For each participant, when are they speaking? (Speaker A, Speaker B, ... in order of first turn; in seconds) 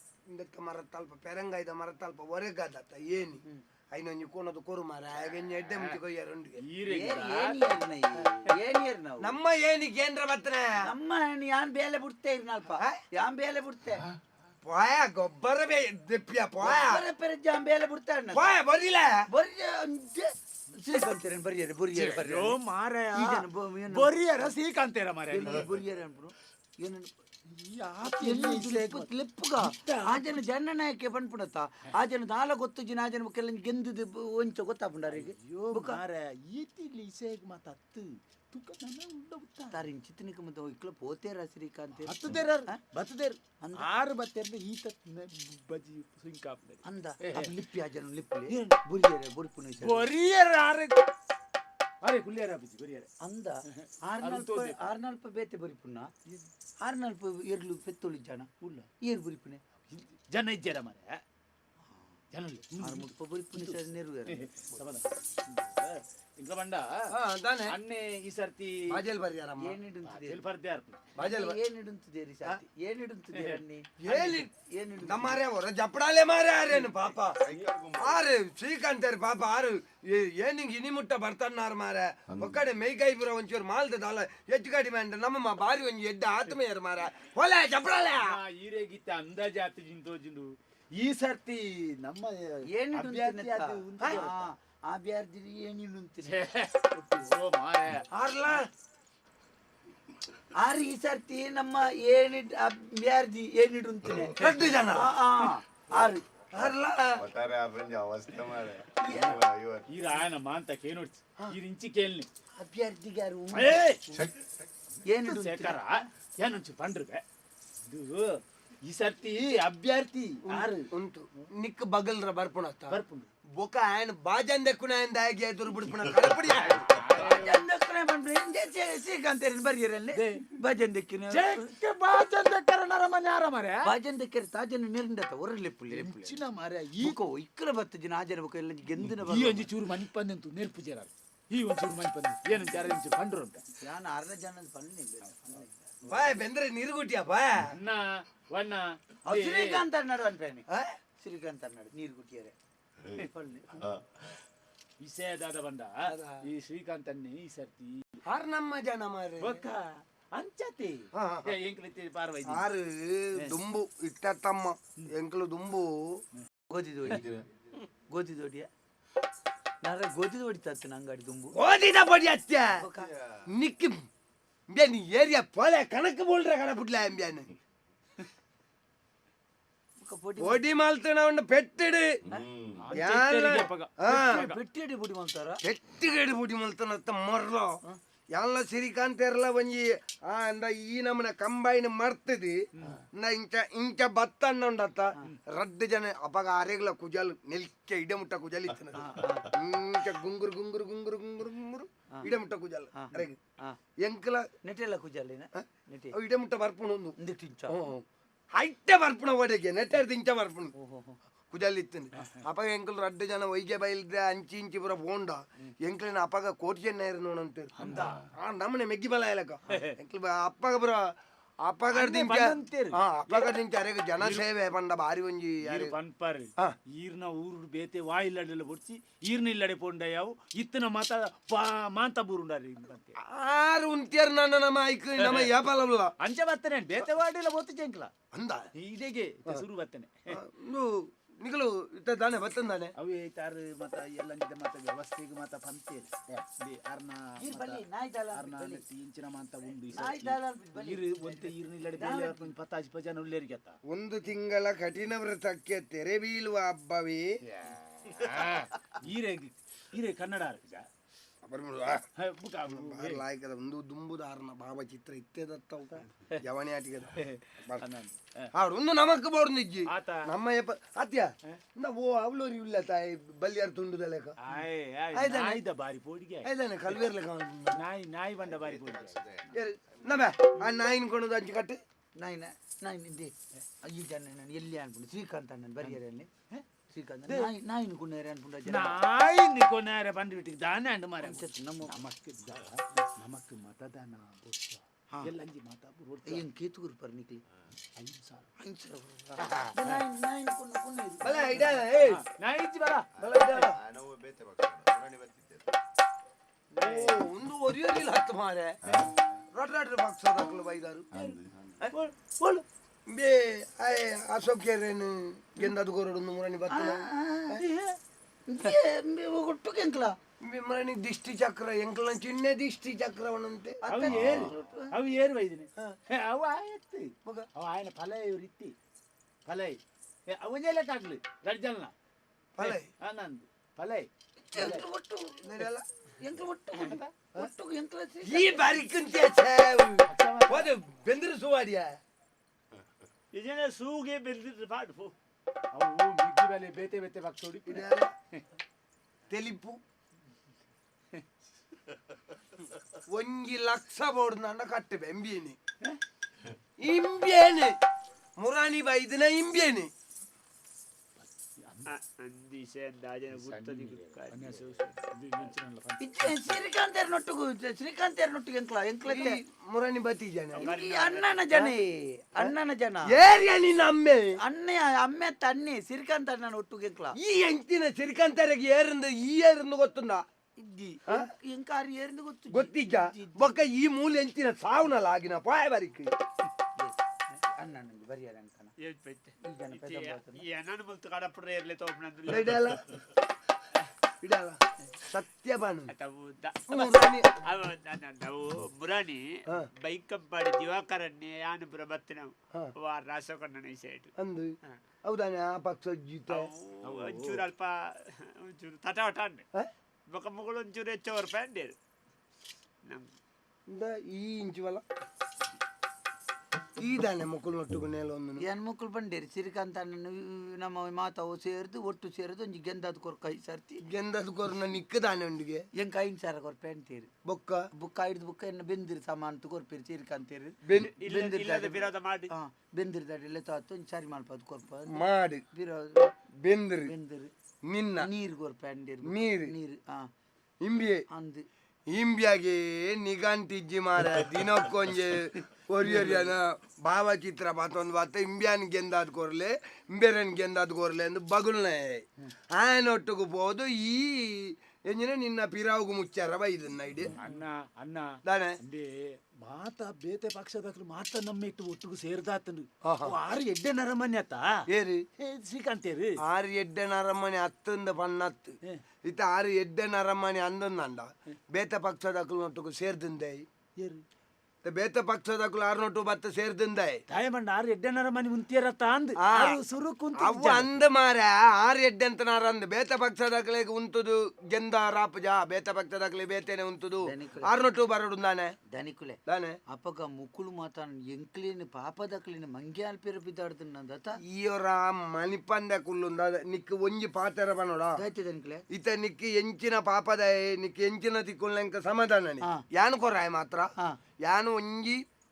Speaker A: 0.3-6.6, 9.2-10.7, 14.6-17.0, 18.3-19.1, 67.2-67.8, 68.9-69.8, 71.2-71.6, 74.0-74.5, 75.0-77.4, 78.0-88.4, 98.1-98.7, 104.4-105.1, 106.5-107.2, 120.6-123.0, 123.6-127.0, 146.1-147.7, 150.7-150.9, 156.1-156.4, 158.3-159.7, 161.2-161.6, 162.4-166.2, 171.6-172.8, 173.5-174.0, 174.7-177.5, 180.4-182.1, 182.9-184.4, 185.6-187.8, 188.3-192.6, 193.1-203.4, 204.0-204.5, 205.6-207.2, 207.7-210.7, 211.5-221.1, 221.6-225.9, 233.2-236.1, 238.3-238.7, 240.3-242.9, 253.9-257.3, 261.4-262.1, 262.6-267.8, 268.5-274.4, 276.4-277.8, 279.5-281.8, 301.2-302.2, 303.2-303.8, 306.8-308.8, 309.5-311.1, 313.1-317.1, 320.4-324.5, 332.6-332.9, 335.4-335.9, 338.2-342.0, 347.7-348.1, 349.3-349.8, 353.1-355.6, 356.8-357.7, 358.4-359.9, 369.1-370.8, 373.1-374.3, 377.2-380.2, 382.5-386.1, 392.3-392.8, 394.2-395.9, 396.7-397.3, 404.2-406.5, 413.7-414.8, 416.8-418.4, 423.8-425.6, 427.2-427.6, 430.6-430.9, 434.9-435.4, 436.4-436.9, 437.6-438.1, 439.1-439.5, 440.6-441.0, 441.9-457.1, 458.3-458.6, 462.8-463.2, 464.8-465.1, 466.3-473.4, 474.6-477.0, 479.2-479.6, 480.1-488.6, 489.3-489.6, 494.2-498.0, 498.7-503.7, 504.2-505.0
Speaker B: 6.6-7.6, 21.9-25.6, 27.5-30.4, 35.1-39.8, 42.0-47.5, 48.5-48.8, 49.8-51.1, 52.0-53.1, 53.7-54.8, 58.6-58.9, 59.9-61.2, 62.3-67.1, 67.7-69.0, 70.1-71.0, 73.3-73.6, 88.1-94.5, 96.2-98.6, 109.1-112.3, 113.5-114.0, 115.2-117.2, 117.9-120.9, 122.9-123.3, 126.5-127.6, 130.1-130.4, 131.3-133.8, 135.9-137.2, 139.0-143.6, 147.7-149.8, 155.0-158.1, 159.4-162.7, 182.8-184.6, 217.8-218.2, 219.7-220.0, 221.9-223.6, 224.2-224.5, 225.6-233.2, 235.2-235.6, 236.2-238.1, 238.8-240.3, 243.0-253.8, 257.5-260.9, 262.2-263.2, 267.2-268.5, 269.9-270.3, 274.4-276.9, 277.7-279.3, 288.7-296.4, 298.0-298.4, 299.4-300.0, 301.9-303.7, 311.1-312.6, 317.6-317.9, 323.8-328.8, 329.5-329.8, 330.3-331.9, 332.6-334.8, 336.8-337.1, 340.1-340.7, 345.8-347.9, 361.2-361.9, 363.3-366.4, 406.8-407.4, 457.2-464.6, 465.2-466.2, 477.1-480.7
Speaker C: 6.9-9.4, 10.9-14.1, 16.6-18.5, 19.3-22.6, 23.1-24.1, 25.3-27.1, 28.1-36.0, 39.7-42.8, 43.6-43.9, 46.9-50.1, 53.2-56.1, 56.8-58.5, 59.0-59.6, 62.8-64.8, 69.6-70.4, 71.2-75.4, 92.8-96.3, 100.6-106.2, 109.0-109.4, 112.6-114.2, 115.1-115.8, 127.2-131.7, 133.9-136.4, 137.0-139.7, 143.8-145.8, 149.3-150.7, 151.2-152.5, 153.1-153.8, 166.7-167.3, 168.1-168.7, 169.8-171.5, 172.8-173.1, 180.0-180.6, 184.1-185.6, 198.9-199.5, 203.0-203.8, 204.7-206.2, 207.2-207.8, 210.8-211.2, 247.4-248.8, 249.9-252.5, 275.1-275.6, 282.2-283.3, 283.9-286.3, 286.9-288.9, 291.2-292.0, 296.3-297.4, 298.6-301.8, 306.8-307.2, 316.7-317.6, 318.5-320.2, 323.8-324.9, 334.4-335.7, 336.2-338.8, 366.0-369.4, 370.6-373.1, 374.4-377.1, 380.6-383.5, 386.8-388.7, 389.5-390.4, 418.4-423.8, 425.8-427.1, 427.8-436.0, 436.9-437.3, 438.0-440.1, 441.1-441.4, 487.1-487.5, 488.7-489.2, 489.7-494.1, 498.0-498.6
Speaker D: 77.2-78.2, 82.3-82.7, 106.6-109.8, 167.1-167.4, 182.3-182.8, 278.4-279.6, 303.2-305.7, 311.1-311.4
Speaker E: 343.3-345.1, 361.9-365.4, 370.6-371.4, 388.8-392.6, 395.9-404.1, 406.3-409.4, 410.1-411.8, 430.8-432.3